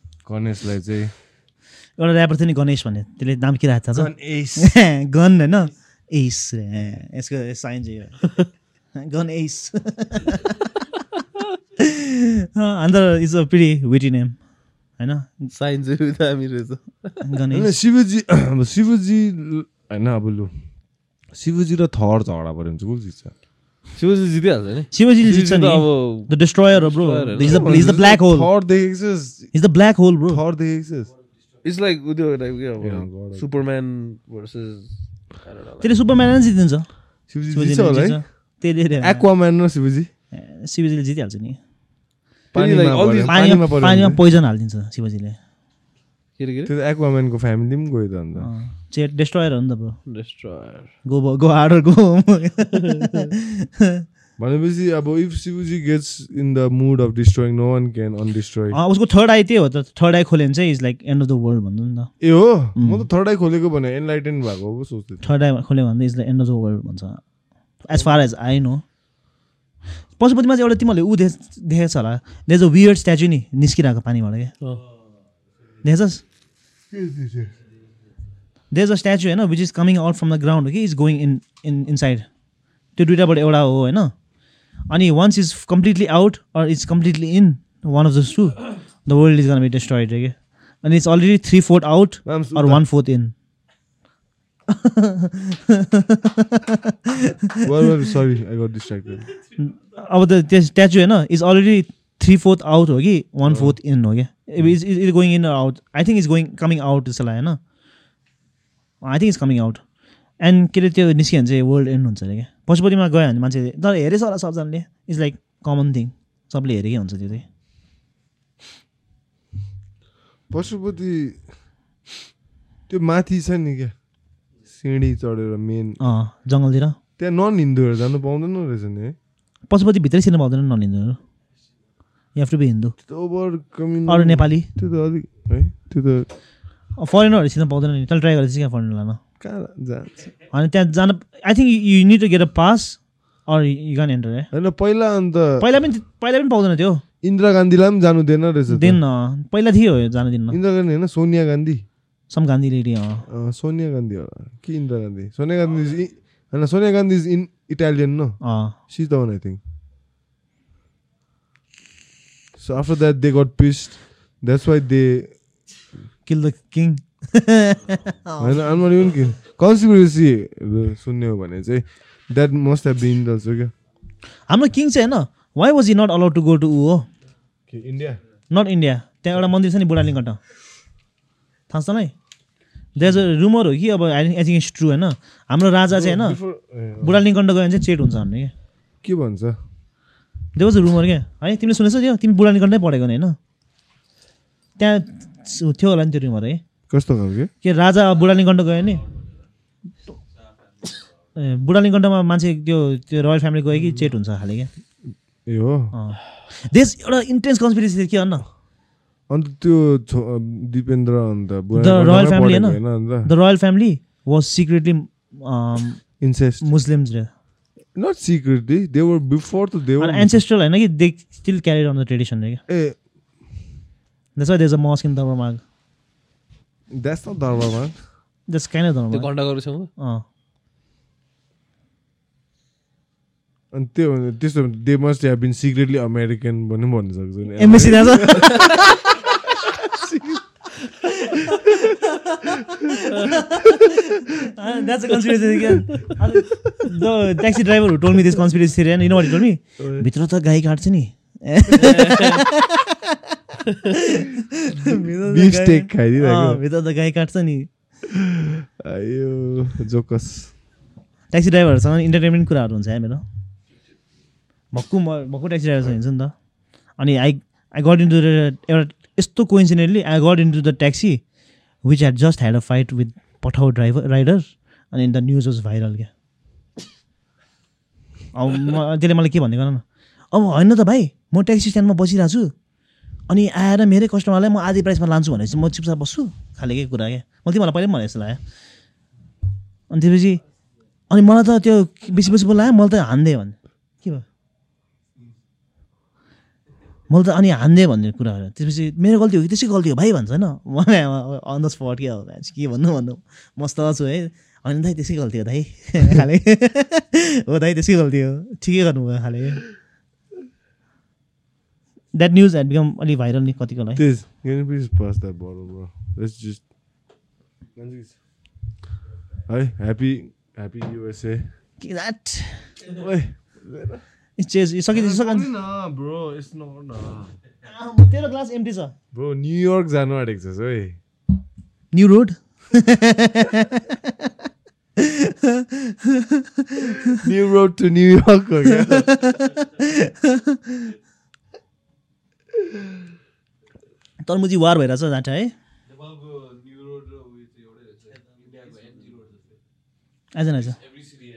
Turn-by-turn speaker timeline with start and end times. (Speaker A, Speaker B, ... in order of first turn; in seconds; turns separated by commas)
Speaker A: 0.2-1.1, Speaker B: 2.0-8.3, Speaker A: 4.0-4.8, Speaker B: 9.0-10.6, Speaker B: 11.8-14.4, Speaker B: 15.0-15.5, Speaker C: 15.5-17.2, Speaker B: 17.2-17.7, Speaker A: 17.5-20.5, Speaker A: 21.3-23.3, Speaker C: 24.0-27.9, Speaker B: 24.9-28.5, Speaker A: 27.4-29.5, Speaker B: 29.5-30.4, Speaker A: 30.3-31.1, Speaker C: 31.6-35.9, Speaker A: 32.8-33.5, Speaker B: 35.8-39.2, Speaker A: 37.3-38.4, Speaker A: 39.0-40.1, Speaker B: 40.3-41.6, Speaker A: 42.5-44.2, Speaker C: 42.5-43.4, Speaker B: 43.3-45.4, Speaker C: 46.4-46.7, Speaker A: 46.7-48.5, Speaker B: 48.4-50.0, Speaker C: 50.1-50.9, Speaker B: 51.0-54.0, Speaker A: 54.4-58.8, Speaker B: 58.7-62.1, Speaker A: 62.2-65.2, Speaker B: 62.8-63.1, Speaker B: 65.2-67.2, Speaker B: 67.8-68.8, Speaker B: 70.2-74.5, Speaker B: 75.8-76.2, Speaker A: 76.9-77.5, Speaker B: 78.7-82.3, Speaker B: 83.0-84.2, Speaker B: 84.9-93.3, Speaker A: 92.2-92.8, Speaker B: 94.7-97.3, Speaker A: 97.6-99.3, Speaker B: 99.6-107.6, Speaker A: 103.5-103.8, Speaker B: 109.0-109.8, Speaker B: 110.4-117.5, Speaker A: 120.5-121.5, Speaker A: 122.9-123.9, Speaker A: 124.7-126.0, Speaker B: 126.0-127.0, Speaker A: 127.2-129.2, Speaker B: 129.7-131.2, Speaker B: 132.3-133.0, Speaker A: 133.1-136.3, Speaker B: 134.1-134.7, Speaker B: 137.0-139.2, Speaker A: 139.4-140.2, Speaker B: 140.5-144.5, Speaker A: 144.5-145.7, Speaker B: 145.6-147.0, Speaker A: 147.2-149.0, Speaker B: 148.7-150.6, Speaker A: 150.5-151.8, Speaker B: 152.3-153.2, Speaker A: 153.3-159.6, Speaker B: 158.4-158.8, Speaker A: 162.6-165.4, Speaker B: 166.3-168.6, Speaker A: 168.4-173.7, Speaker B: 174.5-177.1, Speaker A: 177.7-178.2, Speaker B: 178.5-180.4, Speaker B: 181.7-182.1, Speaker B: 183.0-186.4, Speaker A: 185.9-187.2, Speaker B: 187.0-188.5, Speaker A: 189.0-189.6, Speaker B: 190.6-193.4, Speaker B: 194.8-196.6, Speaker A: 196.9-197.5, Speaker B: 197.6-199.1, Speaker B: 201.3-204.7, Speaker A: 205.5-205.9, Speaker B: 205.9-208.5, Speaker A: 209.3-213.3, Speaker B: 211.7-217.3, Speaker A: 216.2-216.7, Speaker A: 217.9-220.4, Speaker B: 220.0-222.6, Speaker A: 222.7-223.0, Speaker B: 224.4-225.6, Speaker A: 226.9-228.0, Speaker B: 228.5-230.2, Speaker C: 229.1-229.9, Speaker A: 233.7-238.9, Speaker B: 237.6-239.0, Speaker A: 239.9-240.4, Speaker B: 241.0-253.1, Speaker A: 241.2-243.7, Speaker A: 245.6-246.0, Speaker A: 249.8-250.1, Speaker C: 251.8-252.4, Speaker B: 253.9-257.7, Speaker A: 254.8-256.6, Speaker A: 258.1-260.5, Speaker B: 261.3-263.2, Speaker B: 264.7-266.4, Speaker B: 267.0-271.2, Speaker B: 271.8-276.1, Speaker B: 278.3-282.5, Speaker B: 283.3-288.4, Speaker B: 289.9-290.4, Speaker B: 291.1-294.2, Speaker B: 297.1-309.6, Speaker B: 312.1-314.0, Speaker A: 314.0-316.6, Speaker A: 317.8-318.2, Speaker A: 319.5-321.5, Speaker B: 321.8-322.8, Speaker A: 322.8-324.1, Speaker B: 324.4-325.5, Speaker A: 324.9-327.3, Speaker B: 327.6-328.9, Speaker A: 329.1-331.0, Speaker B: 331.9-334.1, Speaker B: 335.0-337.1, Speaker A: 337.1-339.3, Speaker B: 338.9-340.9, Speaker B: 344.2-345.5, Speaker B: 350.3-350.8